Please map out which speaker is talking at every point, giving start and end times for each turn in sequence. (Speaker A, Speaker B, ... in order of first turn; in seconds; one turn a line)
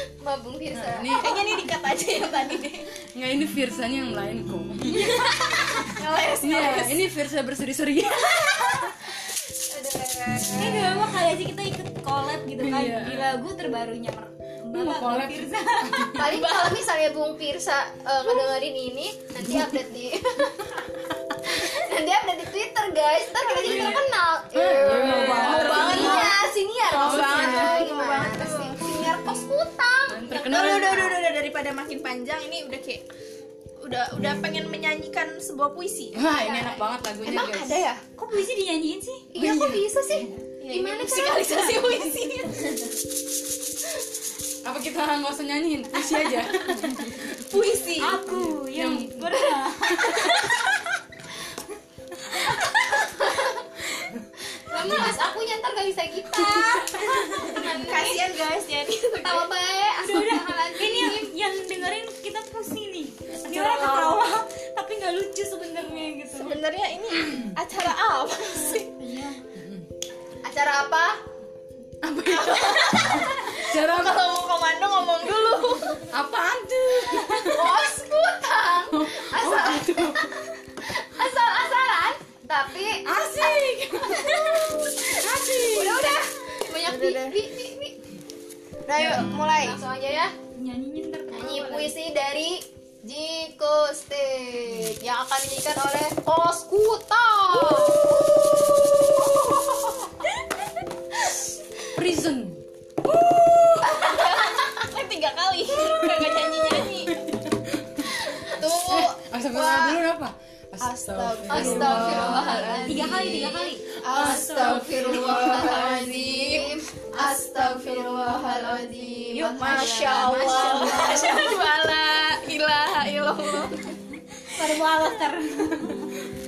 Speaker A: 0.2-1.5
Speaker B: 0.7-1.4
Speaker C: 1.2-2.9
Speaker B: 3.1-5.4
Speaker D: 4.9-5.7
Speaker C: 4.9-7.0
Speaker B: 6.4-9.1
Speaker A: 9.7-10.9
Speaker D: 10.5-16.2
Speaker B: 12.6-13.4
Speaker B: 14.7-16.5
Speaker A: 16.1-20.8
Speaker A: 21.4-30.3
Speaker C: 23.4-24.0
Speaker B: 23.6-26.4
Speaker C: 24.9-29.1
Speaker B: 26.9-27.9
Speaker B: 30.1-31.2
Speaker C: 30.3-33.0
Speaker C: 33.8-36.2
Speaker B: 36.1-37.8
Speaker A: 36.3-36.9
Speaker C: 37.2-38.0
Speaker D: 38.2-39.3
Speaker A: 39.3-41.9
Speaker B: 39.3-40.3
Speaker C: 40.6-42.9
Speaker B: 44.6-47.5
Speaker C: 47.5-48.2
Speaker D: 48.0-50.4
Speaker B: 48.2-50.4
Speaker C: 50.2-50.5
Speaker A: 53.0-53.6
Speaker B: 53.9-55.1
Speaker A: 54.5-58.3
Speaker B: 56.5-57.5
Speaker C: 57.5-59.5
Speaker A: 59.2-61.3
Speaker D: 60.0-66.6
Speaker B: 63.5-64.1
Speaker C: 66.3-68.9
Speaker B: 67.2-67.5
Speaker D: 68.8-69.4
Speaker B: 69.5-69.9
Speaker A: 70.4-71.2
Speaker B: 72.0-74.3
Speaker C: 72.3-76.0
Speaker B: 76.1-77.8
Speaker A: 77.3-87.9
Speaker B: 78.9-80.4
Speaker B: 83.0-84.3
Speaker B: 85.2-86.2
Speaker C: 86.8-87.4
Speaker C: 88.9-89.8
Speaker B: 88.9-89.3
Speaker A: 88.9-90.3
Speaker D: 90.5-91.9
Speaker A: 91.3-100.1
Speaker B: 101.9-102.6
Speaker C: 103.8-107.2
Speaker A: 103.8-104.8
Speaker B: 107.0-116.5
Speaker C: 108.2-109.0
Speaker A: 109.5-110.0
Speaker C: 110.8-113.1
Speaker A: 111.5-121.7
Speaker D: 112.9-113.8
Speaker C: 114.2-116.0
Speaker C: 117.8-118.6
Speaker B: 118.5-121.0
Speaker C: 119.3-123.9
Speaker D: 124.4-126.2